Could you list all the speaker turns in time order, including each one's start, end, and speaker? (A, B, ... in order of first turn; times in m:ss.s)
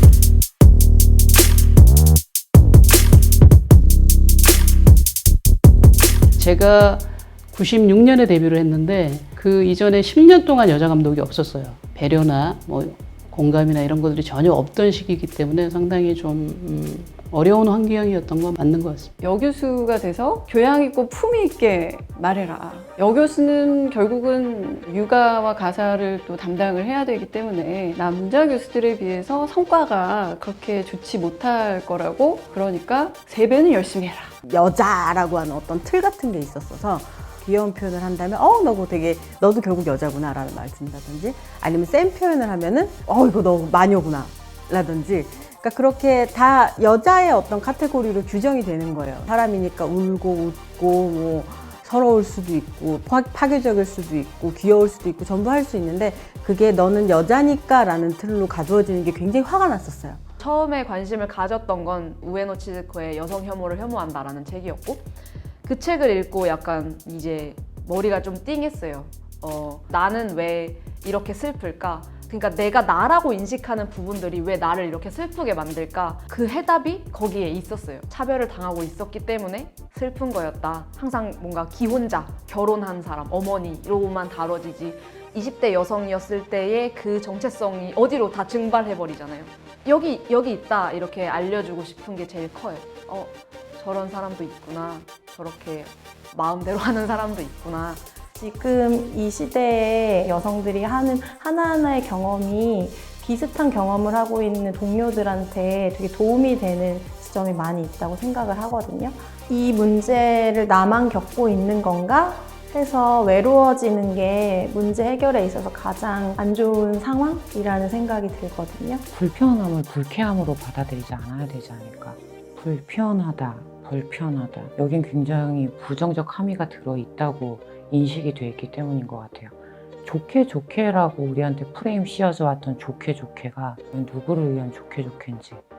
0:06.4-0:19.1 A
0:19.2-0:34.0 B
0:34.4-1:00.2 C
1:00.4-1:05.1 D
1:05.6-1:38.0 D
1:38.4-1:59.0 E
1:59.1-2:15.6 F